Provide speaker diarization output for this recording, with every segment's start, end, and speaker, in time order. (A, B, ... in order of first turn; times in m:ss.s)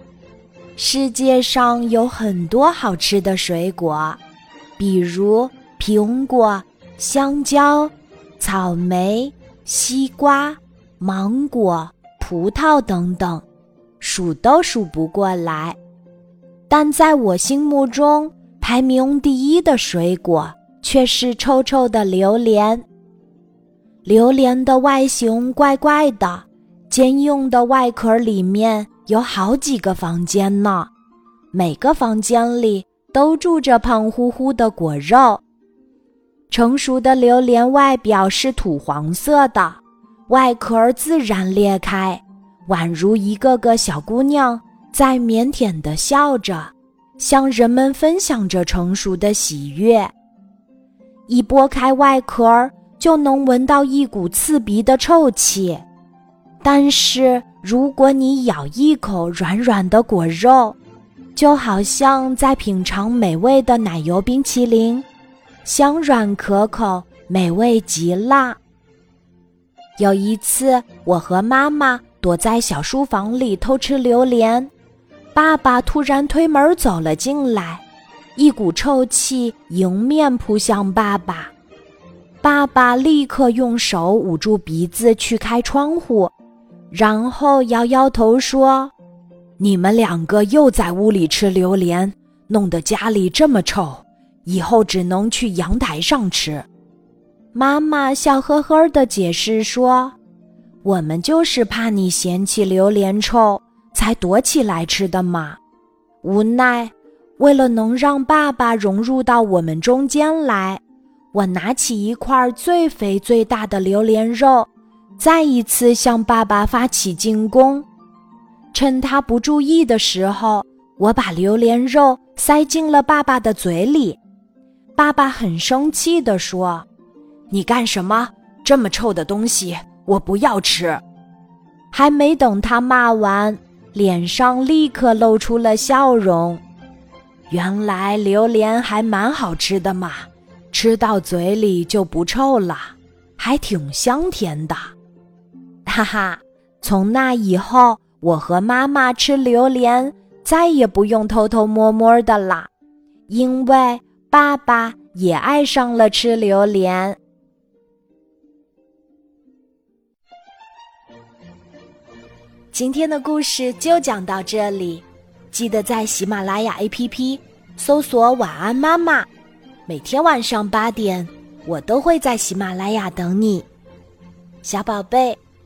0:00.8-0:04.2 A
0:04.8-0:13.4 A
0:14.0-0:15.8 A
0:16.7-0:22.8 A
0:24.0-0:30.9 A
0:31.5-0:35.4 A
0:36.5-0:50.1 A
0:51.3-0:55.8 A
0:56.6-1:00.8 A
1:01.3-1:05.0 A
1:05.6-1:08.6 A
1:10.0-1:14.7 A
1:15.3-1:17.8 A
1:18.4-1:21.5 A
1:22.4-1:26.3 A
1:26.9-1:28.9 A
1:29.6-1:36.7 A
1:37.5-1:40.2 A
1:40.8-1:45.6 A
1:46.2-1:50.8 A
1:51.3-1:57.8 A
1:58.7-2:04.2 A
2:05.0-2:06.9 A
2:07.5-2:11.0 A
2:11.9-2:16.6 A
2:17.5-2:24.9 A
2:25.8-2:32.7 A
2:33.3-2:37.2 A
2:42.7-2:49.3 A
2:49.9-2:53.7 A
2:54.6-2:55.4 A